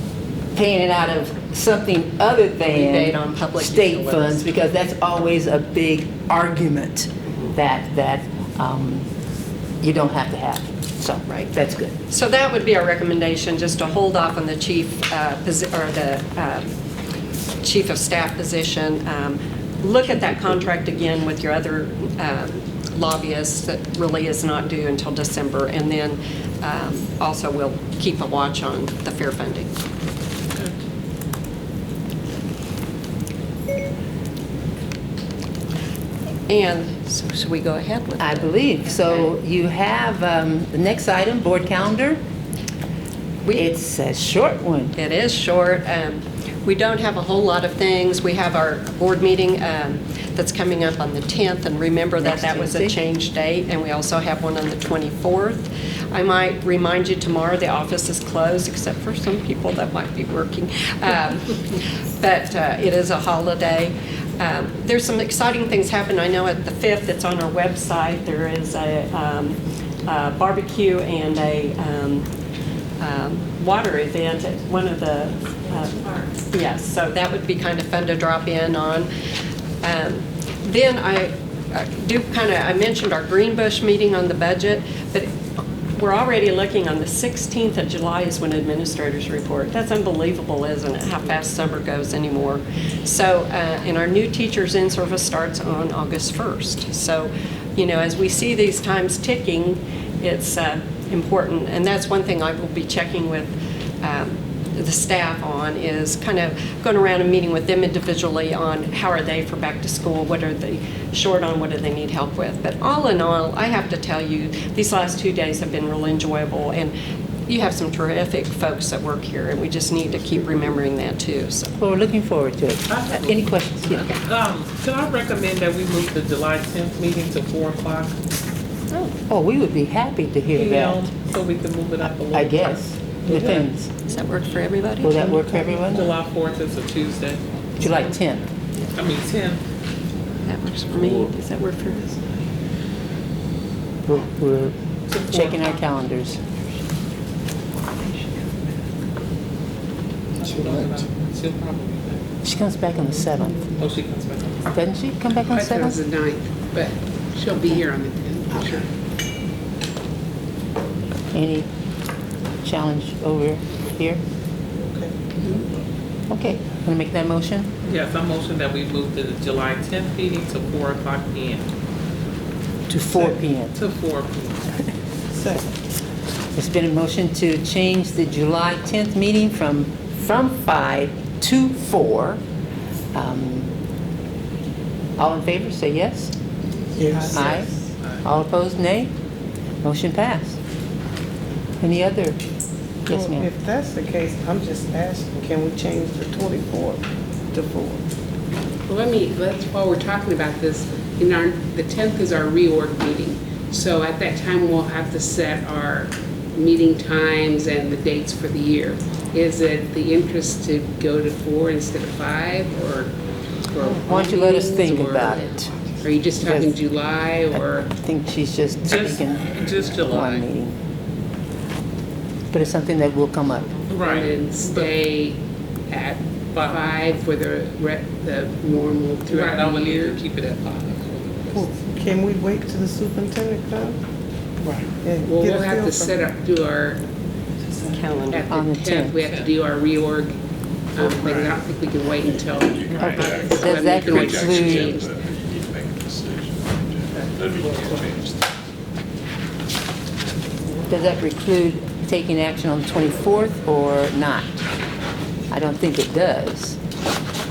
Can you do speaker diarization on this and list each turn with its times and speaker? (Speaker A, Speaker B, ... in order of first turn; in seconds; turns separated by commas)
Speaker A: 0.6-9.1, Speaker B: 2.6-4.4, Speaker A: 9.8-11.9, Speaker B: 11.3-11.5, Speaker B: 12.1-16.7, Speaker B: 17.6-29.7, Speaker A: 20.2-20.5, Speaker B: 36.5-39.3, Speaker A: 38.2-42.2, Speaker A: 43.5-45.0, Speaker B: 45.0-72.3, Speaker A: 52.2-53.0, Speaker B: 73.0-79.1, Speaker B: 79.8-85.3, Speaker B: 86.0-117.0, Speaker B: 117.5-121.7, Speaker A: 121.8-124.2, Speaker C: 122.9-128.2, Speaker A: 129.3-131.1, Speaker C: 130.5-133.7, Speaker A: 132.3-133.9, Speaker B: 134.1-135.3, Speaker A: 135.0-136.1, Speaker D: 135.1-136.1, Speaker C: 135.9-137.4, Speaker A: 137.8-138.5, Speaker C: 139.0-139.6, Speaker B: 140.4-142.0, Speaker A: 144.1-144.8, Speaker C: 145.1-145.6, Speaker A: 145.3-146.4, Speaker C: 150.4-152.2, Speaker A: 152.4-153.8, Speaker C: 153.8-154.7, Speaker A: 154.7-156.0, Speaker E: 155.5-158.9, Speaker A: 161.3-161.7, Speaker A: 162.6-164.2, Speaker D: 164.8-165.6, Speaker A: 166.3-167.7, Speaker C: 167.8-171.7, Speaker A: 172.9-173.8, Speaker C: 173.8-174.7, Speaker D: 175.3-175.7, Speaker A: 176.6-182.4, Speaker A: 183.1-183.7, Speaker A: 185.2-186.3, Speaker D: 187.0-187.5, Speaker A: 187.3-187.7, Speaker A: 188.2-189.1, Speaker A: 189.8-190.6, Speaker A: 191.8-192.4, Speaker A: 193.1-193.5, Speaker D: 193.1-198.1, Speaker E: 198.9-213.1, Speaker E: 213.7-215.4, Speaker A: 213.8-215.7, Speaker E: 216.0-217.9, Speaker A: 216.4-216.8, Speaker A: 217.5-220.8, Speaker C: 218.9-220.5, Speaker A: 222.5-223.8, Speaker C: 223.9-224.9, Speaker E: 224.0-230.2, Speaker C: 226.6-226.9, Speaker C: 229.3-231.8, Speaker D: 231.5-234.0, Speaker D: 235.0-236.2, Speaker E: 235.3-237.0, Speaker B: 237.9-238.5, Speaker E: 238.3-240.4, Speaker A: 238.5-239.2, Speaker C: 239.2-239.6, Speaker E: 240.9-245.1, Speaker C: 241.2-241.6, Speaker F: 242.2-248.6, Speaker A: 243.0-245.0, Speaker A: 250.8-254.5, Speaker A: 255.5-256.8